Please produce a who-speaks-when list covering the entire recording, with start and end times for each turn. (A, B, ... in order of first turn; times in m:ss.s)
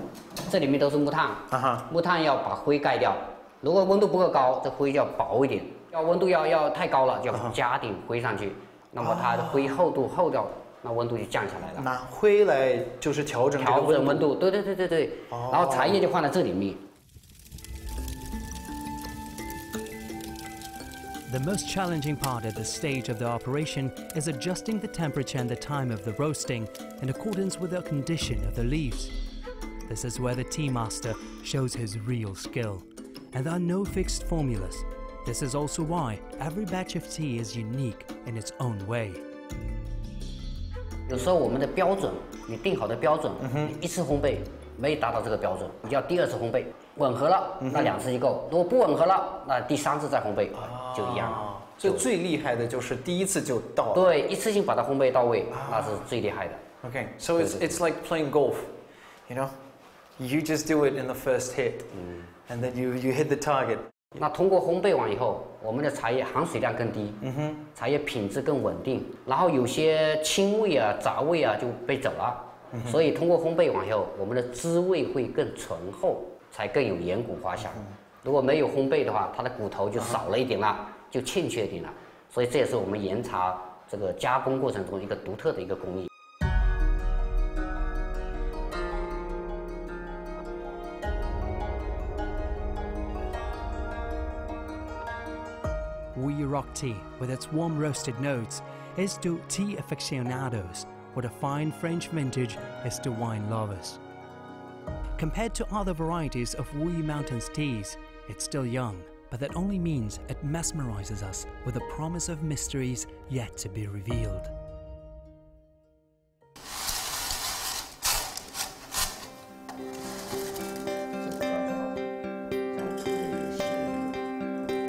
0:00.5-0:11.9 A
0:01.5-0:01.9 B
0:07.3-0:07.6 B
0:09.0-0:09.8 B
0:11.8-0:14.3 B
0:13.6-0:16.8 A
0:15.3-0:16.0 B
0:21.3-0:29.1 C
0:29.9-0:39.2 C
0:41.1-0:52.1 A
0:43.4-0:43.8 B
0:47.6-0:48.0 B
0:50.6-0:54.1 B
0:53.9-0:56.6 A
0:55.5-0:56.0 B
0:56.8-0:58.8 B
0:57.4-0:57.8 A
0:59.3-0:59.6 B
1:00.2-1:01.9 B
1:01.9-1:02.3 A
1:02.5-1:03.9 B
1:04.2-1:07.2 A
1:07.2-1:07.6 B
1:07.8-1:26.1 A
1:12.7-1:13.1 B
1:36.2-1:44.0 C
1:45.2-1:54.5 C
2:02.8-2:04.0 A